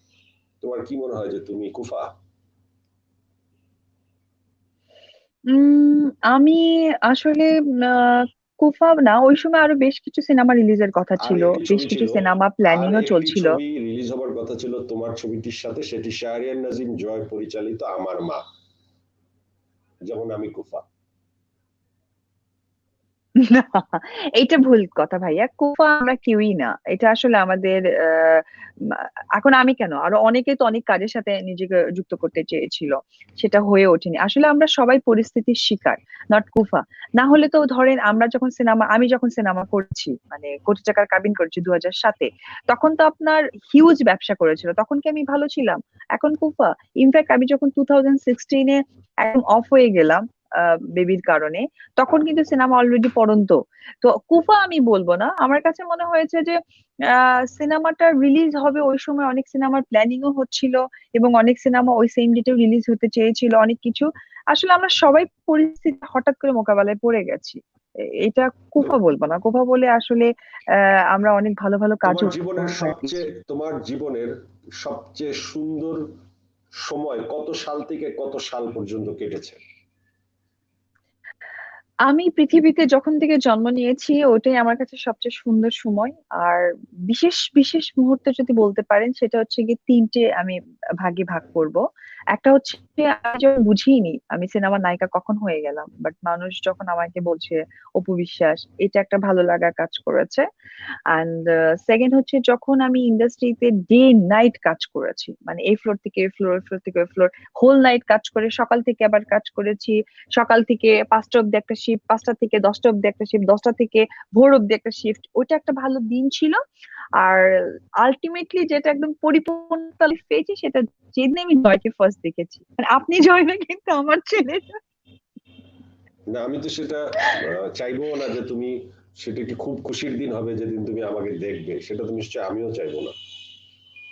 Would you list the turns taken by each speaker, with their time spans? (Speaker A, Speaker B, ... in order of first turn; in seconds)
Speaker A: 0.6-2.1, 11.2-18.4, 20.1-20.8, 72.0-76.0, 76.8-79.6, 126.3-133.1
Speaker B: 5.5-13.6, 23.4-28.4, 29.4-56.6, 57.1-67.6, 68.2-70.3, 70.8-73.3, 82.1-91.8, 92.3-100.4, 101.1-116.6, 117.2-117.4, 118.0-124.7